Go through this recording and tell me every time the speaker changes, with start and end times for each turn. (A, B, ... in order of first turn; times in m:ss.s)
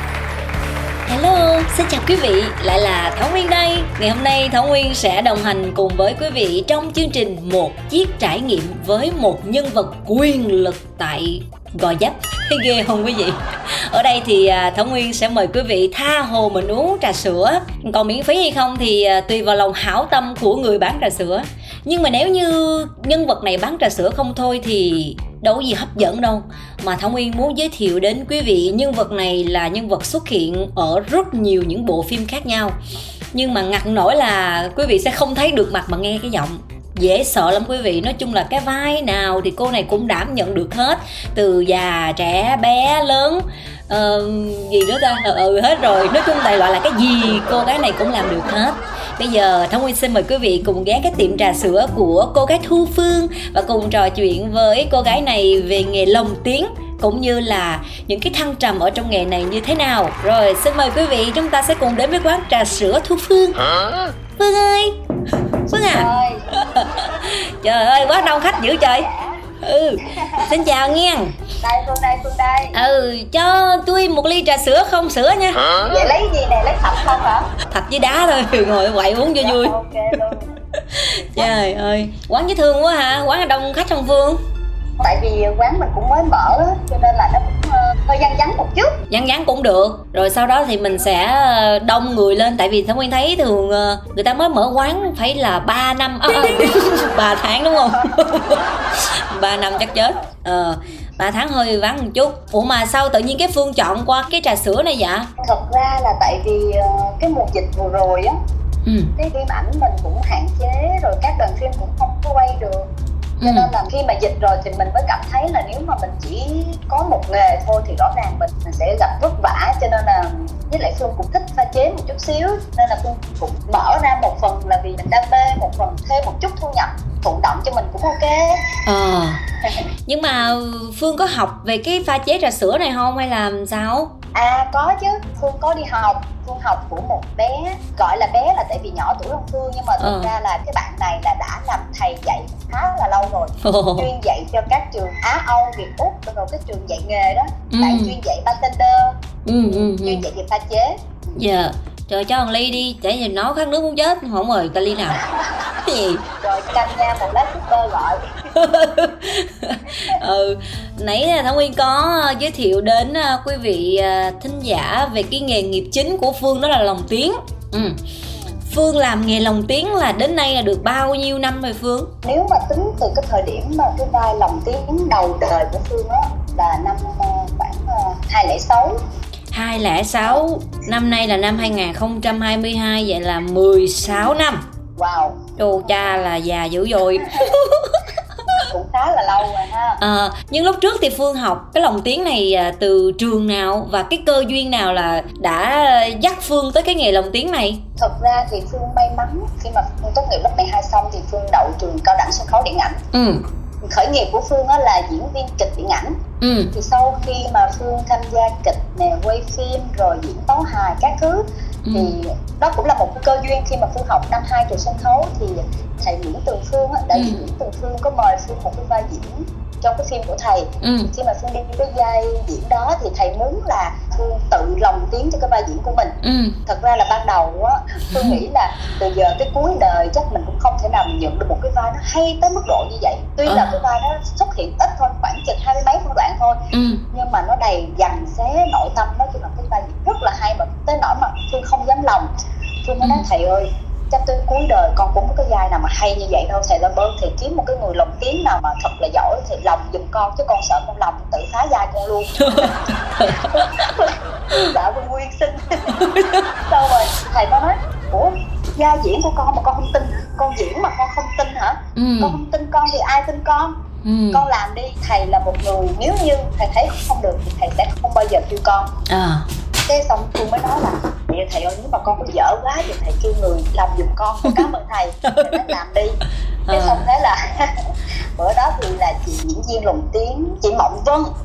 0:01.0-0:32.8 A
0:33.3-1:03.7 A
1:04.4-1:05.0 A
1:05.7-1:09.1 A
1:05.9-1:06.5 B
1:08.3-1:09.4 B
1:09.6-1:11.4 A
1:10.2-1:10.5 B
1:11.6-1:12.8 B
1:12.7-1:15.8 A
1:15.8-1:17.5 B
1:17.7-1:19.8 A
1:19.4-1:20.6 B
1:20.8-1:24.4 A
1:21.1-1:21.5 B
1:25.0-1:29.0 B
1:29.1-1:45.3 A
1:36.3-1:37.1 B
1:37.8-1:38.7 B
1:39.7-1:40.3 B
1:45.4-1:48.4 B
1:48.8-1:49.1 A
1:49.2-1:52.9 B
1:53.4-1:53.7 A
1:53.4-2:08.6 B
2:08.8-2:09.4 A
2:10.1-2:14.1 A
2:14.3-2:31.3 B
2:20.0-2:20.3 A
2:23.6-2:24.1 A
2:27.7-2:28.2 A
2:29.5-2:30.2 A
2:31.3-2:35.2 A
2:35.3-2:35.7 B
2:35.8-2:36.2 A
2:36.4-2:38.3 B
2:38.5-2:48.0 A
2:48.7-2:52.1 A
2:52.2-2:59.0 B
2:59.5-3:04.6 A
3:05.0-3:05.4 B
3:05.6-3:08.0 A
3:07.2-3:07.5 B
3:08.5-3:10.0 B
3:10.0-3:17.8 A
3:18.0-3:23.0 B
3:23.1-3:23.4 A
3:23.8-3:26.2 B
3:26.4-3:26.7 A
3:26.8-3:31.4 B
3:31.8-3:32.1 A
3:31.9-3:46.2 B
3:37.2-3:37.4 A
3:40.8-3:41.1 A
3:46.2-3:46.6 A
3:46.7-3:56.6 B
3:48.1-3:48.4 A
3:53.5-3:53.8 A
3:56.7-3:57.0 A
3:57.1-4:02.3 B
4:02.8-4:16.1 B
4:12.4-4:13.6 A
4:15.9-4:16.5 A
4:16.6-4:23.8 B
4:22.0-4:22.4 A
4:24.0-4:24.4 A
4:24.3-4:28.9 B
4:29.1-4:29.5 A
4:29.9-4:36.2 B
4:35.3-4:35.7 A
4:36.7-4:37.1 A
4:36.7-4:37.9 B
4:38.4-4:41.3 B